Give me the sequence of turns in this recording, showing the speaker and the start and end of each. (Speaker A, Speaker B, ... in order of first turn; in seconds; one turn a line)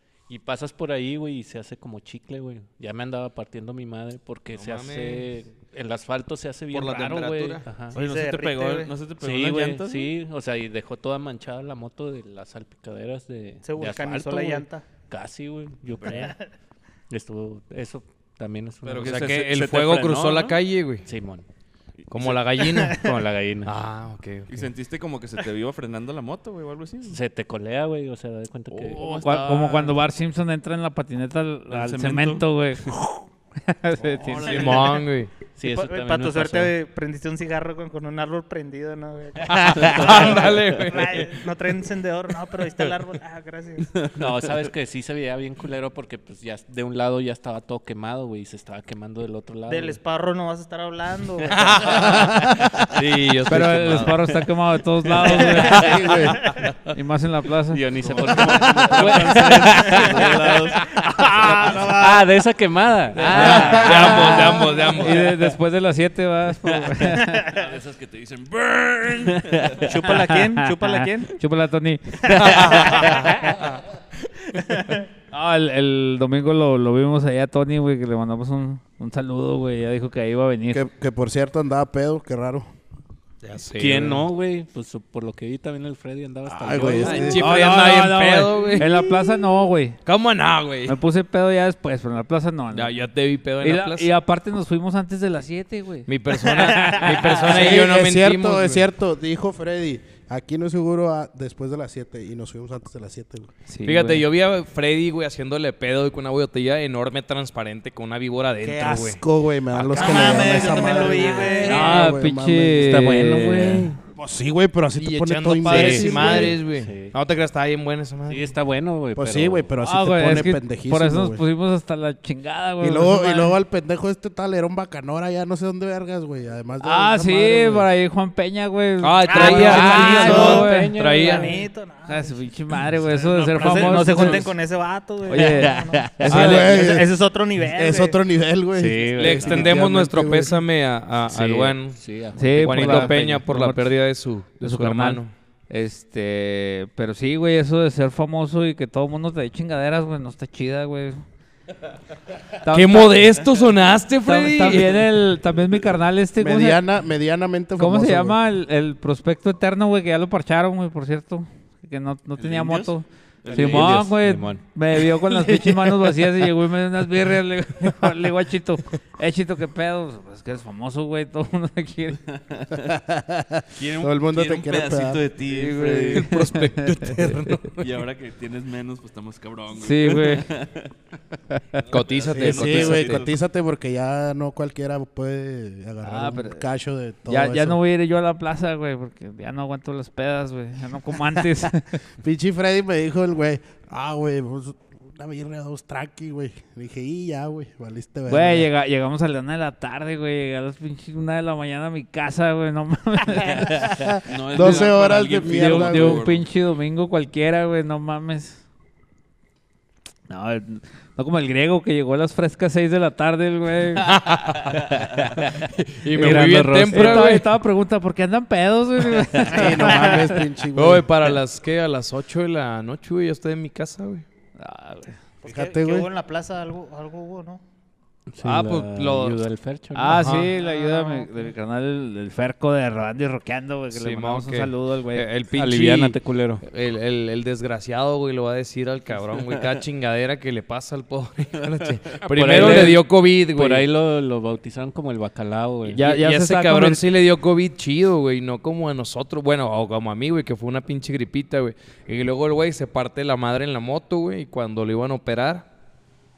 Speaker A: 0.3-8.0
Speaker B: 4.5-5.3
Speaker B: 6.7-7.7
Speaker C: 7.9-8.9
Speaker D: 7.9-10.1
Speaker A: 9.2-16.4
Speaker C: 13.6-14.8
Speaker A: 17.1-20.5
Speaker B: 18.9-21.1
Speaker D: 19.0-20.6
Speaker A: 21.1-21.4
Speaker B: 22.1-23.0
Speaker C: 22.6-23.0
Speaker A: 23.0-23.7
Speaker B: 23.6-24.7
Speaker D: 24.5-27.2
Speaker A: 27.1-29.1
Speaker D: 28.7-30.0
Speaker E: 29.0-34.8
Speaker D: 31.7-32.4
Speaker D: 34.2-34.9
Speaker B: 34.4-35.3
Speaker A: 35.6-36.7
Speaker C: 35.6-44.0
Speaker B: 39.5-41.3
Speaker A: 39.8-40.4
Speaker A: 44.1-50.0
Speaker C: 49.7-52.4
Speaker B: 51.5-54.3
Speaker F: 52.3-52.7
Speaker E: 53.5-56.1
Speaker A: 55.3-55.8
Speaker F: 55.6-56.5
Speaker B: 56.3-56.5
Speaker E: 56.9-57.8
Speaker A: 57.7-65.0
Speaker D: 58.1-60.9
Speaker C: 60.9-62.3
Speaker B: 63.3-65.3
Speaker E: 63.3-67.5
Speaker C: 67.3-67.7
Speaker D: 67.5-69.9
Speaker C: 69.8-71.3
Speaker E: 70.3-73.5
Speaker B: 72.4-73.5
Speaker C: 72.5-73.3
Speaker C: 74.5-75.0
Speaker E: 75.3-80.9
Speaker F: 80.7-82.7
Speaker B: 83.4-84.2
Speaker A: 83.8-87.5
Speaker F: 86.5-87.4
Speaker B: 87.0-89.1
Speaker E: 87.2-90.0
Speaker B: 90.0-91.0
Speaker E: 90.9-92.9
Speaker B: 92.7-94.1
Speaker E: 93.6-97.5
Speaker B: 96.1-98.8
Speaker C: 96.6-97.0
Speaker F: 97.5-103.5
Speaker E: 103.7-104.2
Speaker B: 103.8-111.6
Speaker F: 108.6-112.9
Speaker C: 109.9-112.0
Speaker E: 111.6-114.0
Speaker A: 112.8-114.0
Speaker F: 114.2-116.6
Speaker B: 115.0-118.5
Speaker A: 115.7-117.2
Speaker A: 118.3-119.7
Speaker F: 119.2-121.4
Speaker E: 119.8-123.6
Speaker F: 122.8-127.9
Speaker E: 126.8-134.5
Speaker B: 129.0-131.5
Speaker C: 129.3-130.7
Speaker A: 129.4-131.6
Speaker C: 131.2-132.4
Speaker C: 133.4-138.2
Speaker A: 133.6-134.5
Speaker E: 135.3-136.3
Speaker A: 135.3-136.5
Speaker F: 136.2-140.5
Speaker B: 136.3-136.7
Speaker A: 138.7-139.8
Speaker B: 139.1-142.0
Speaker A: 141.3-143.4
Speaker E: 142.4-143.9
Speaker B: 142.5-145.3
Speaker E: 144.6-151.2
Speaker E: 152.6-153.2
Speaker B: 152.7-155.1
Speaker E: 154.3-156.8
Speaker F: 156.4-158.4
Speaker E: 157.8-172.2
Speaker D: 162.4-162.9
Speaker D: 163.4-164.0
Speaker A: 163.5-164.6
Speaker A: 165.3-165.8
Speaker D: 172.5-172.9
Speaker F: 172.8-175.3
Speaker D: 173.8-176.4
Speaker E: 175.4-177.5
Speaker B: 176.1-177.9
Speaker D: 177.8-180.9
Speaker E: 179.7-180.5
Speaker E: 181.5-181.8
Speaker B: 181.9-183.2
Speaker D: 181.9-183.3
Speaker F: 182.3-187.8
Speaker E: 186.0-186.7
Speaker E: 187.3-192.0
Speaker F: 192.2-198.7
Speaker E: 198.3-203.9
Speaker F: 203.7-206.2
Speaker D: 204.3-206.4
Speaker E: 204.6-204.9
Speaker E: 205.5-208.6
Speaker E: 210.3-214.1
Speaker B: 214.0-217.5
Speaker A: 216.1-217.3
Speaker E: 216.2-220.3
Speaker A: 219.2-219.4
Speaker F: 219.5-221.1
Speaker C: 219.5-220.3
Speaker B: 220.7-224.2
Speaker E: 224.6-225.2
Speaker C: 225.4-227.6
Speaker F: 225.4-226.1
Speaker A: 228.3-230.2
Speaker B: 228.4-229.3
Speaker E: 229.9-235.3
Speaker B: 230.1-230.6
Speaker B: 233.9-243.8
Speaker A: 235.5-236.7
Speaker D: 241.7-242.2
Speaker A: 242.2-246.1
Speaker E: 242.5-243.0
Speaker E: 245.9-247.0
Speaker B: 246.0-255.7